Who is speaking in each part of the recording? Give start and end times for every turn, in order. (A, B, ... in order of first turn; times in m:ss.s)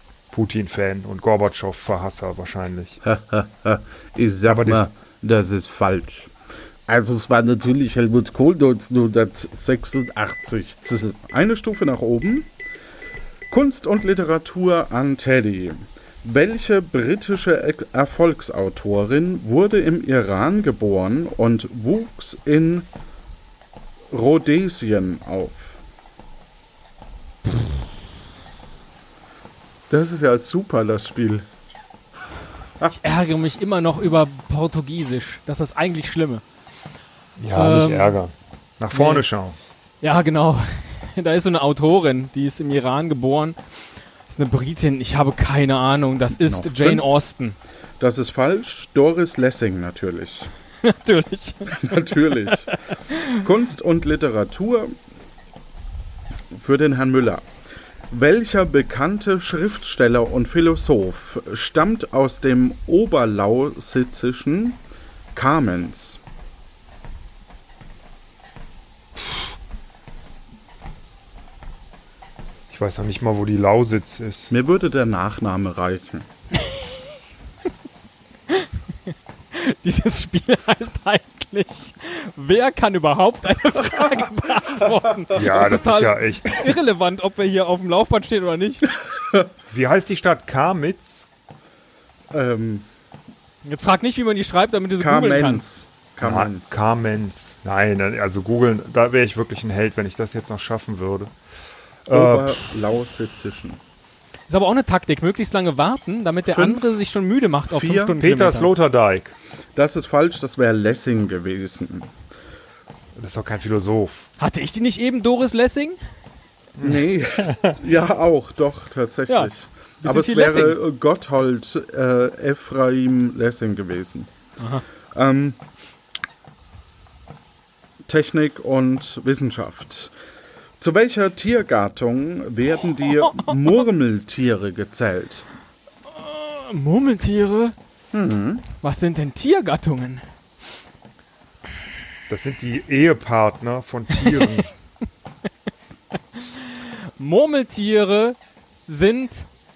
0:00.3-0:03.0 A
0:03.0-0:06.3 B
0:04.5-0:04.9 A
0:06.9-0:12.5 B
0:13.5-0:22.9 B
0:24.1-0:25.8 B
0:29.9-0:31.5 B
0:33.0-0:36.4 C
0:37.4-0:39.6 A
0:37.5-0:38.2 C
0:38.9-0:39.2 C
0:40.0-0:43.6 C
0:44.3-0:47.6 C
0:46.4-0:47.2 B
0:48.0-0:50.5 B
0:50.8-0:53.4 C
0:51.7-0:55.0 B
0:56.5-0:57.4 B
0:58.1-1:04.8 B
1:05.3-1:06.2 B
1:12.7-1:14.5 A
1:14.5-1:16.3 B
1:19.5-1:28.8 C
1:25.4-1:26.8 A
1:29.2-1:29.5 B
1:29.7-1:31.3 A
1:32.3-1:32.9 B
1:33.6-1:35.6 C
1:35.0-1:36.8 B
1:36.2-1:41.3 A
1:42.1-1:42.6 A
1:42.1-1:43.8 B
1:44.5-1:48.7 C
1:46.5-1:46.9 B
1:47.7-1:48.2 B
1:48.2-1:49.3 A
1:49.8-1:52.1 B
1:53.2-1:54.3 A
1:54.4-1:56.0 C
1:56.8-1:57.8 A
1:56.8-2:04.3 B
2:00.0-2:00.8 C
2:04.6-2:04.8 C
2:05.1-2:05.6 B
2:08.1-2:10.1 B
2:10.8-2:15.4 B
2:16.1-2:17.8 C
2:18.1-2:18.7 B
2:18.8-2:20.2 C
2:22.3-2:24.7 A
2:26.4-2:29.5 C